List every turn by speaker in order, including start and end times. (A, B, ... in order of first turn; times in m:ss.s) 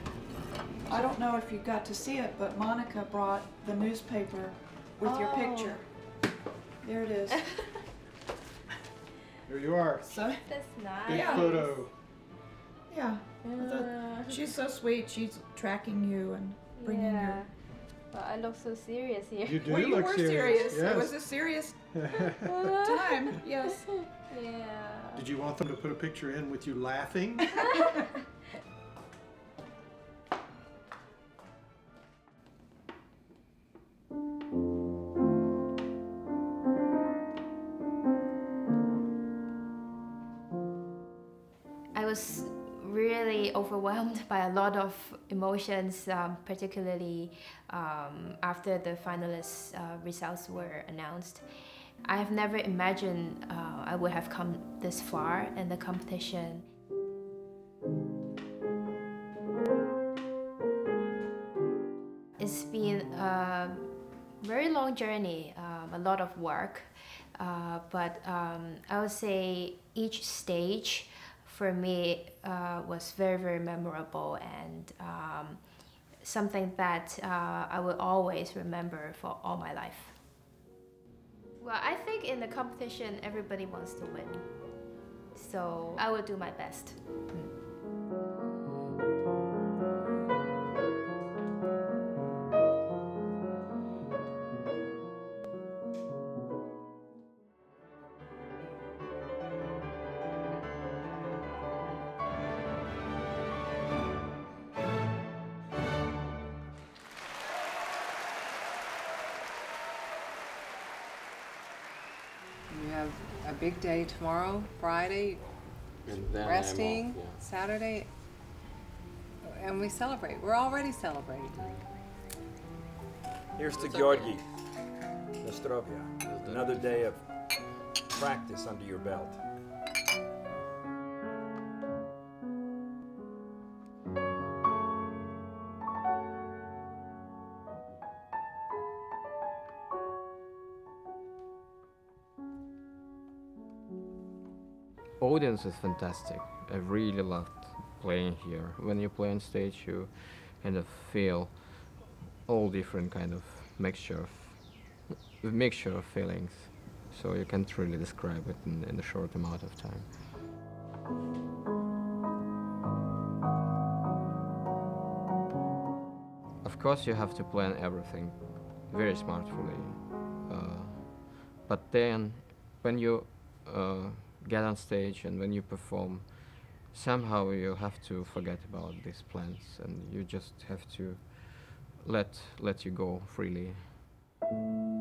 0:00.9-0:05.9 A
0:05.0-0:05.8 B
0:06.8-0:07.4 A
0:09.5-0:10.1 C
0:10.1-0:10.4 A
0:10.4-0:11.8 B
0:11.1-0:11.9 C
0:11.1-0:11.5 A
0:12.9-0:17.4 A
0:13.4-0:14.5 B
0:16.8-0:17.5 B
0:18.1-0:19.8 B
0:19.4-0:21.1 C
0:19.7-0:21.8 A
0:20.4-0:20.9 B
0:21.9-0:22.5 C
0:22.4-0:25.3 B
0:22.7-0:23.8 A
0:25.2-0:27.5 C
0:27.6-0:28.0 B
0:41.9-0:51.5 B
0:52.0-0:56.7 B
1:02.4-1:15.7 B
1:16.2-1:20.2 B
1:21.6-1:24.6 B
1:25.3-1:27.2 B
1:52.7-1:55.4 D
1:56.1-1:57.4 E
1:56.4-1:58.1 D
1:59.4-2:01.8 D
2:03.6-2:04.5 F
2:05.4-2:07.2 F
2:06.2-2:06.7 E
2:08.1-2:09.4 F
2:25.2-2:40.2 E
2:46.6-3:04.0 E